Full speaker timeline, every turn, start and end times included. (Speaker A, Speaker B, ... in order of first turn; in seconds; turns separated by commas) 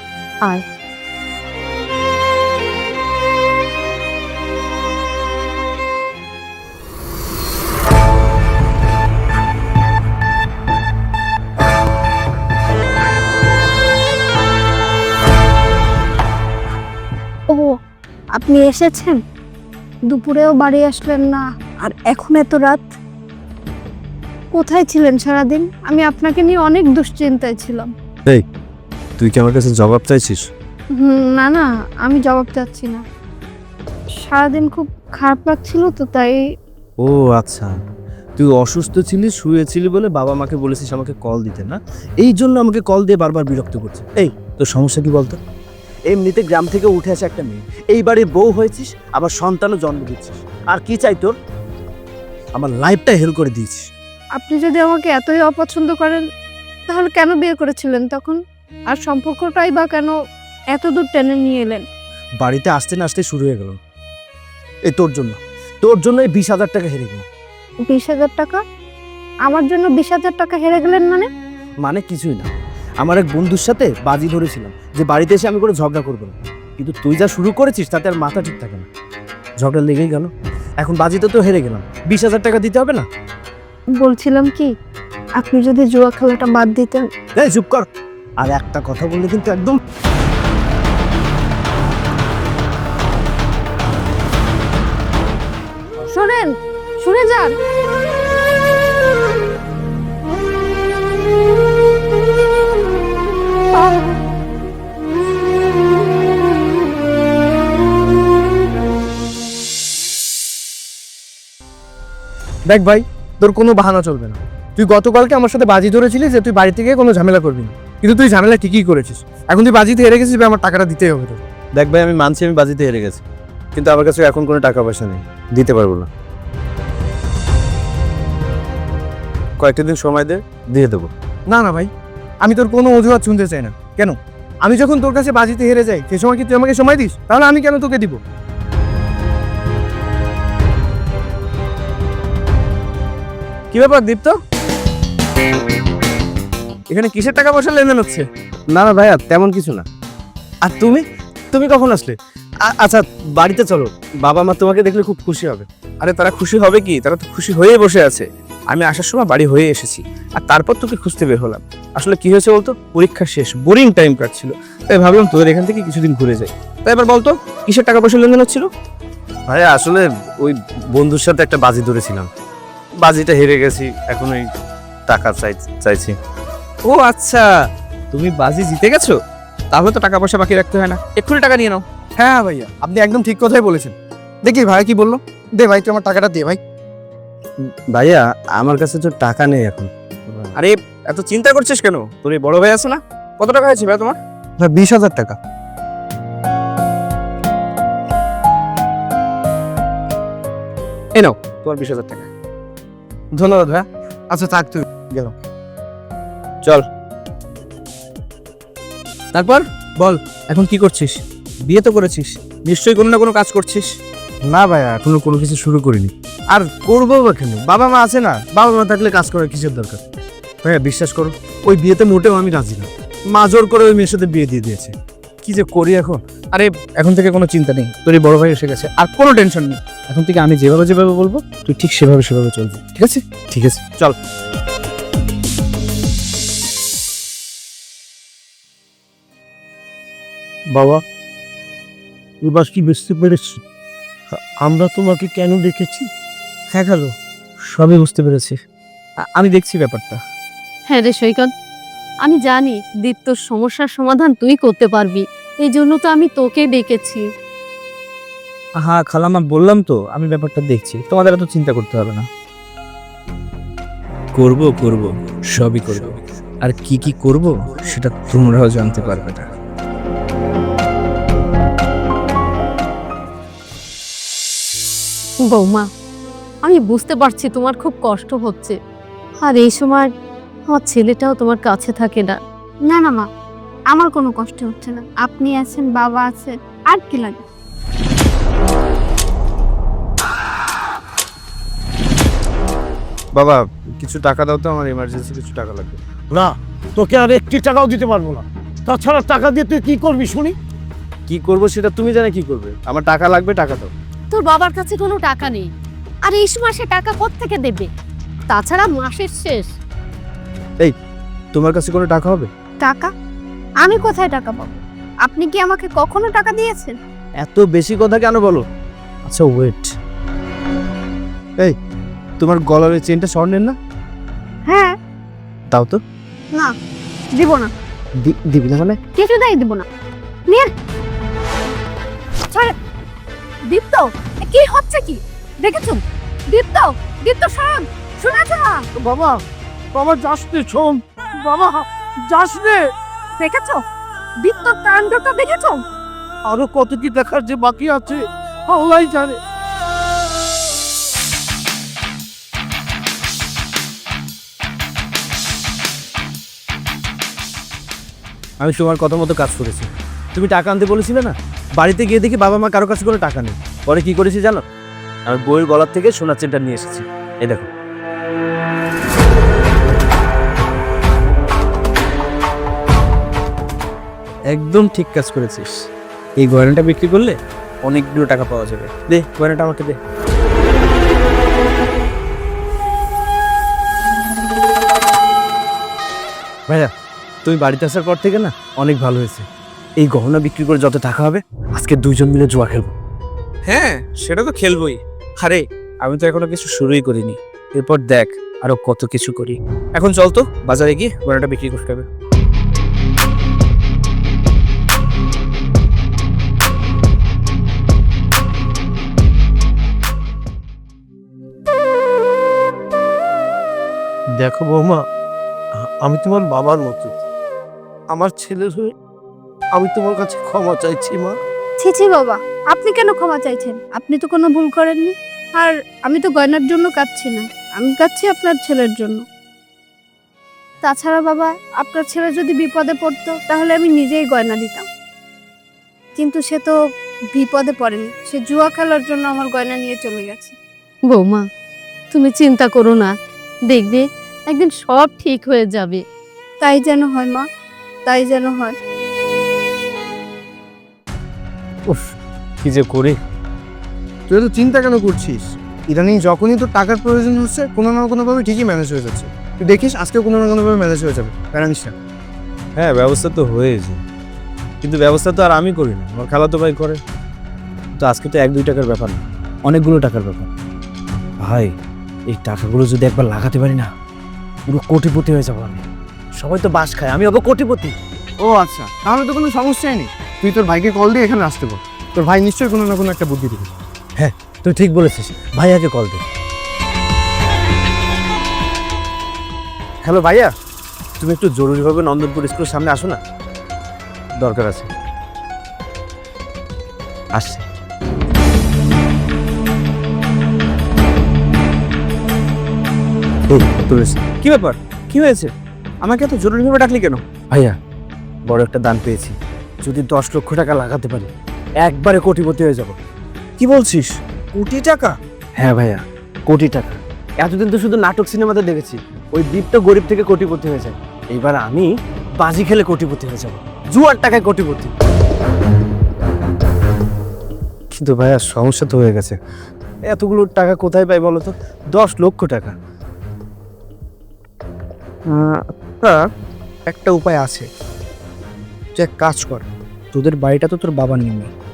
Speaker A: 18.4-19.2, Speaker A: 20.1-22.9, Speaker A: 24.5-27.9, Speaker B: 29.2-30.5, Speaker A: 31.0-33.0, Speaker A: 34.2-36.4, Speaker B: 37.0-37.8, Speaker B: 38.4-45.4, Speaker B: 46.1-51.3, Speaker B: 52.5-53.9, Speaker A: 54.4-56.2, Speaker A: 56.9-60.1, Speaker A: 60.7-61.9, Speaker B: 62.4-63.8, Speaker B: 64.9-67.2, Speaker A: 67.8-68.6, Speaker A: 69.5-71.3, Speaker B: 71.8-72.5, Speaker B: 73.0-78.9, Speaker B: 79.6-83.0, Speaker A: 84.0-84.7, Speaker A: 85.4-87.0, Speaker B: 87.3-87.8, Speaker B: 88.4-89.8, Speaker A: 96.0-97.5, Speaker C: 112.7-121.4, Speaker B: 121.7-123.2, Speaker B: 123.8-126.1, Speaker B: 129.6-131.1, Speaker C: 131.5-131.9, Speaker C: 132.4-138.2, Speaker D: 143.7-144.4, Speaker D: 146.9-148.2, Speaker B: 148.7-149.8, Speaker B: 150.6-155.7, Speaker D: 156.0-168.7, Speaker B: 169.5-172.3, Speaker B: 173.0-174.4, Speaker B: 175.1-176.2, Speaker D: 176.8-177.5, Speaker D: 178.1-179.2, Speaker D: 179.7-181.8, Speaker C: 182.2-186.6, Speaker B: 187.7-190.5, Speaker D: 190.6-194.2, Speaker C: 194.6-195.3, Speaker D: 201.2-202.3, Speaker C: 203.4-205.3, Speaker D: 209.3-213.9, Speaker B: 214.5-220.0, Speaker B: 220.6-226.2, Speaker D: 226.5-234.2, Speaker E: 240.7-241.0, Speaker E: 242.4-243.6, Speaker E: 244.3-246.1, Speaker D: 246.7-247.1, Speaker D: 247.7-248.6, Speaker D: 249.3-250.2, Speaker F: 250.9-251.5, Speaker F: 252.2-257.2, Speaker D: 258.8-262.2, Speaker D: 264.4-269.4, Speaker F: 275.5-275.9, Speaker F: 276.6-278.8, Speaker F: 279.4-280.1, Speaker F: 280.7-282.4, Speaker A: 282.9-283.3, Speaker A: 283.9-287.4, Speaker B: 293.3-296.0, Speaker E: 296.3-300.5, Speaker B: 301.3-303.9, Speaker F: 304.3-305.7, Speaker F: 306.2-307.9, Speaker F: 308.5-309.7, Speaker B: 311.5-312.5, Speaker A: 312.8-313.1, Speaker A: 313.8-317.0, Speaker B: 317.4-318.6, Speaker B: 319.2-319.9, Speaker B: 322.4-323.8, Speaker A: 324.7-324.9, Speaker D: 325.7-326.0, Speaker A: 327.4-327.7, Speaker B: 328.6-328.9, Speaker A: 329.0-329.8, Speaker A: 333.7-336.0, Speaker A: 336.5-338.8, Speaker E: 338.9-339.4, Speaker E: 339.9-342.8, Speaker A: 343.4-343.8, Speaker A: 344.4-345.8, Speaker E: 346.5-349.4, Speaker B: 358.6-364.6, Speaker B: 365.2-367.7, Speaker D: 374.5-375.7, Speaker D: 376.4-380.0, Speaker B: 387.4-389.4, Speaker B: 390.0-392.9, Speaker D: 393.7-402.1, Speaker E: 414.4-415.0, Speaker E: 415.8-417.1, Speaker E: 418.1-418.9, Speaker E: 419.8-421.4, Speaker A: 421.8-429.2, Speaker A: 430.8-434.9, Speaker A: 436.1-436.8, Speaker A: 437.3-440.6, Speaker F: 441.1-441.4, Speaker F: 442.1-443.1, Speaker F: 443.7-446.0, Speaker A: 446.6-447.4, Speaker A: 448.1-448.8, Speaker B: 451.9-453.2, Speaker C: 454.3-461.9, Speaker B: 462.8-464.0, Speaker B: 464.8-467.0, Speaker B: 468.0-470.5, Speaker B: 471.4-471.7, Speaker B: 472.3-473.9, Speaker B: 474.7-475.8, Speaker B: 476.4-477.9, Speaker C: 478.4-483.7, Speaker B: 484.2-486.2, Speaker B: 490.0-490.5, Speaker B: 491.2-493.2, Speaker B: 494.4-494.9, Speaker B: 497.4-497.6, Speaker B: 503.5-504.2, Speaker D: 504.4-505.5, Speaker D: 506.0-507.2, Speaker B: 507.5-507.8, Speaker B: 508.5-511.3, Speaker B: 511.8-513.0, Speaker D: 513.6-515.2, Speaker B: 515.5-524.9, Speaker B: 527.9-529.4, Speaker B: 530.1-532.8, Speaker D: 535.3-536.2, Speaker D: 536.9-537.7, Speaker D: 538.9-541.5